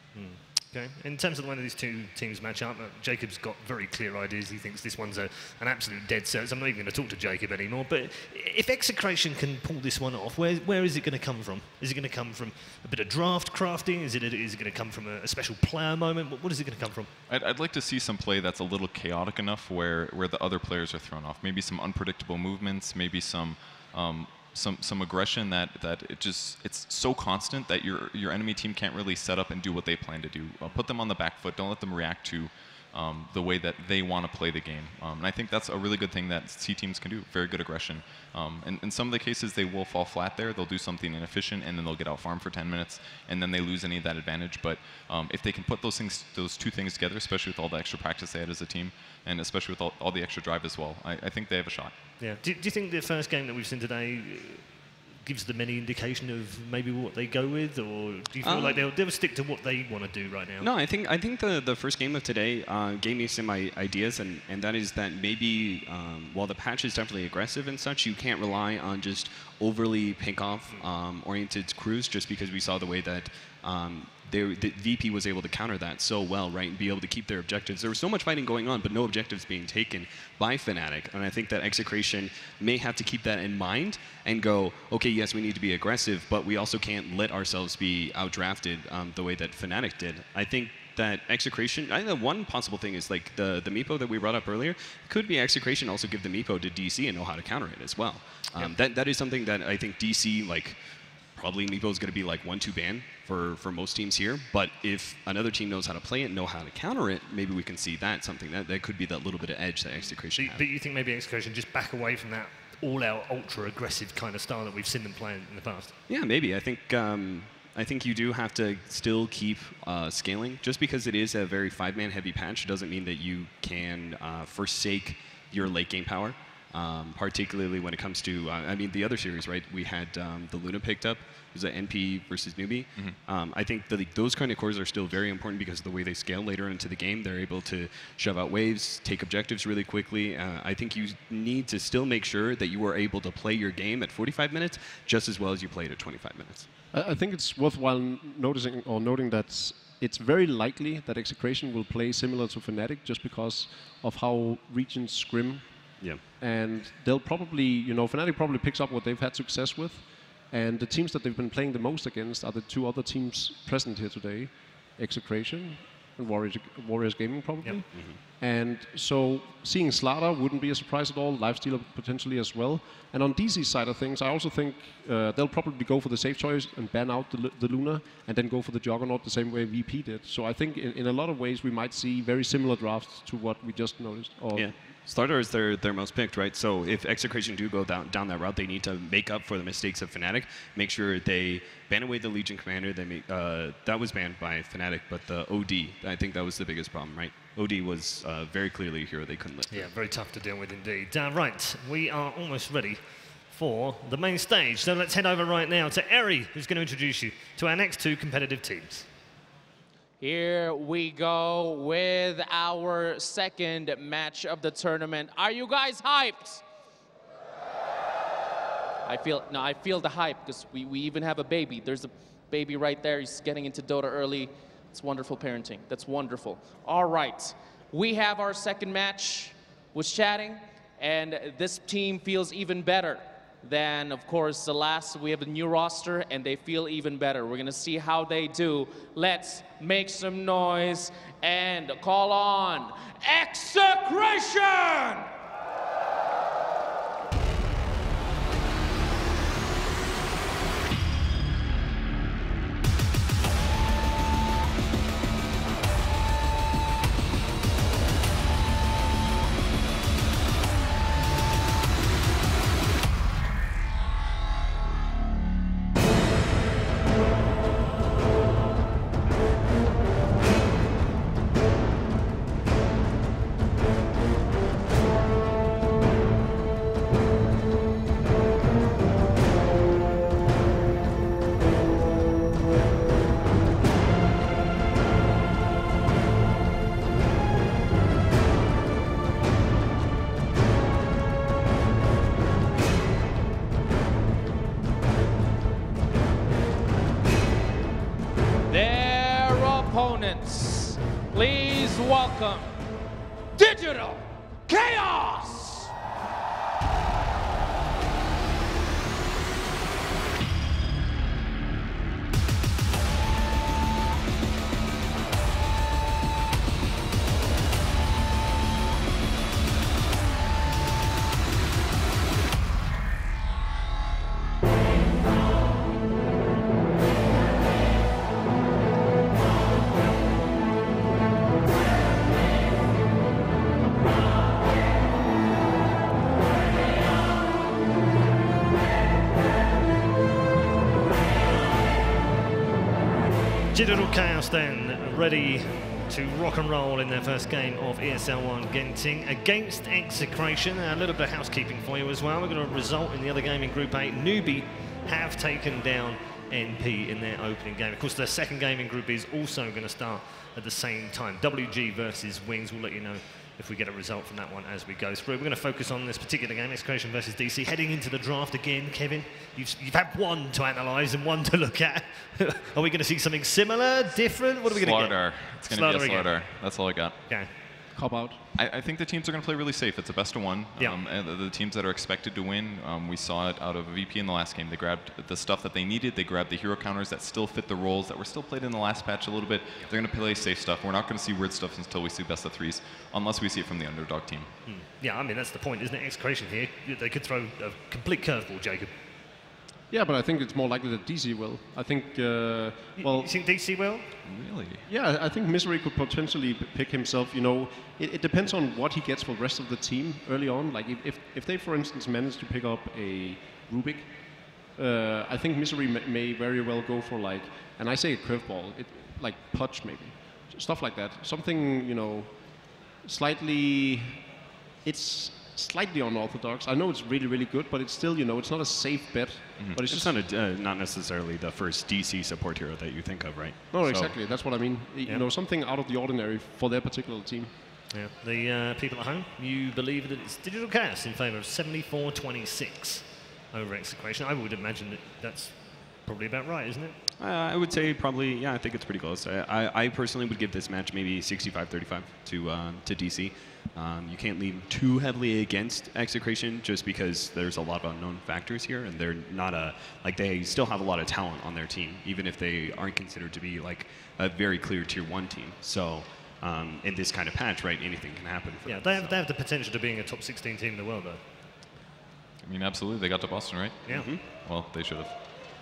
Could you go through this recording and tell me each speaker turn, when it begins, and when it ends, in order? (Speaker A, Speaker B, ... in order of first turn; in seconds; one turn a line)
Speaker A: 0.1-17.1
Speaker B: 17.3-51.9
Speaker A: 52.2-60.7
Speaker C: 58.4-58.9
Speaker C: 60.6-100.8
Speaker C: 101.3-110.6
Speaker A: 110.3-116.0
Speaker C: 116.1-146.7
Speaker D: 146.9-155.7
Speaker D: 156.4-184.7
Speaker C: 167.9-168.2
Speaker C: 184.5-199.9
Speaker A: 199.7-209.1
Speaker E: 210.2-216.6
Speaker E: 219.1-245.3
Speaker E: 298.7-302.7
Speaker E: 303.6-305.9
Speaker A: 343.7-376.5
Speaker B: 374.7-377.2
Speaker D: 377.9-378.4
Speaker B: 378.6-394.5
Speaker A: 394.7-398.9
Speaker D: 399.9-403.3
Speaker A: 403.0-404.1
Speaker B: 404.2-404.9
Speaker D: 404.9-430.2
Speaker C: 429.9-433.9
Speaker D: 433.7-437.5
Speaker A: 437.9-447.0
Speaker C: 447.2-469.2
Speaker A: 468.7-471.2
Speaker B: 472.4-475.4
Speaker C: 473.9-474.2